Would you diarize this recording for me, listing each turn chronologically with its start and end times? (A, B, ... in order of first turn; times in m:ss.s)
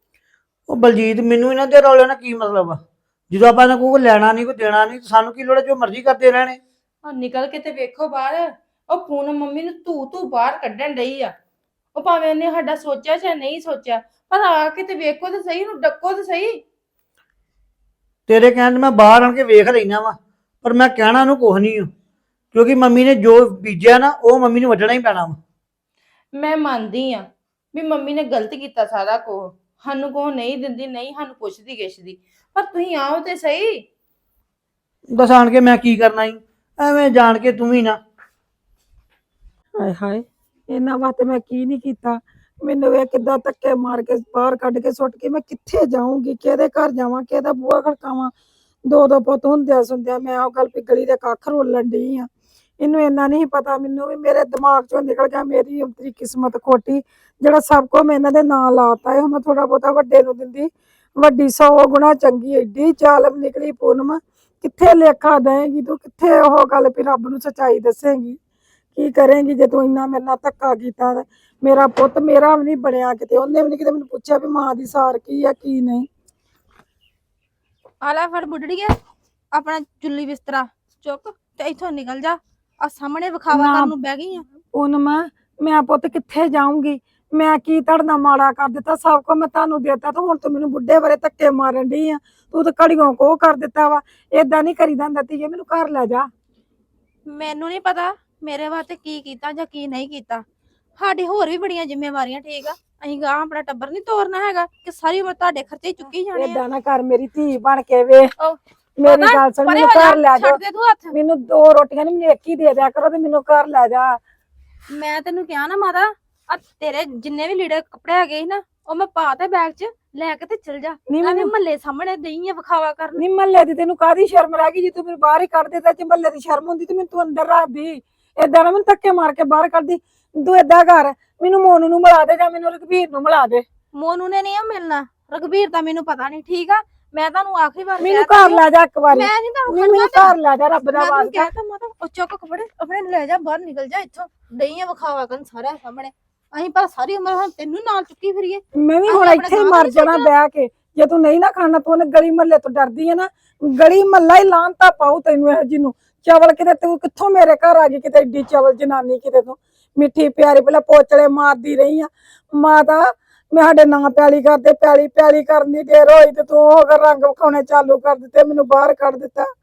0:00.7-0:06.6 A
0:07.0-0:11.3 B
0:11.9-0:16.6 B
0:18.3-0:21.9 A
0:22.5-0:25.4 A
0:26.3-0:33.8 B
0:35.1-0:38.0 A
0:39.8-0:48.3 C
0:48.8-0:52.3 C
0:52.8-1:08.4 C
1:09.0-1:16.1 C
1:18.0-1:19.0 D
1:19.5-1:24.4 D
1:23.5-1:23.9 C
1:24.7-1:36.3 C
1:37.3-1:40.4 D
1:41.0-1:46.6 D
1:46.3-1:48.3 C
1:48.4-1:51.1 D
1:49.0-1:50.6 C
1:51.1-1:54.2 C
1:54.9-2:03.2 D
2:01.1-2:01.5 C
2:03.2-2:13.6 C
2:13.9-2:20.4 D
2:18.0-2:21.5 C
2:20.9-2:30.3 D
2:28.7-2:49.5 C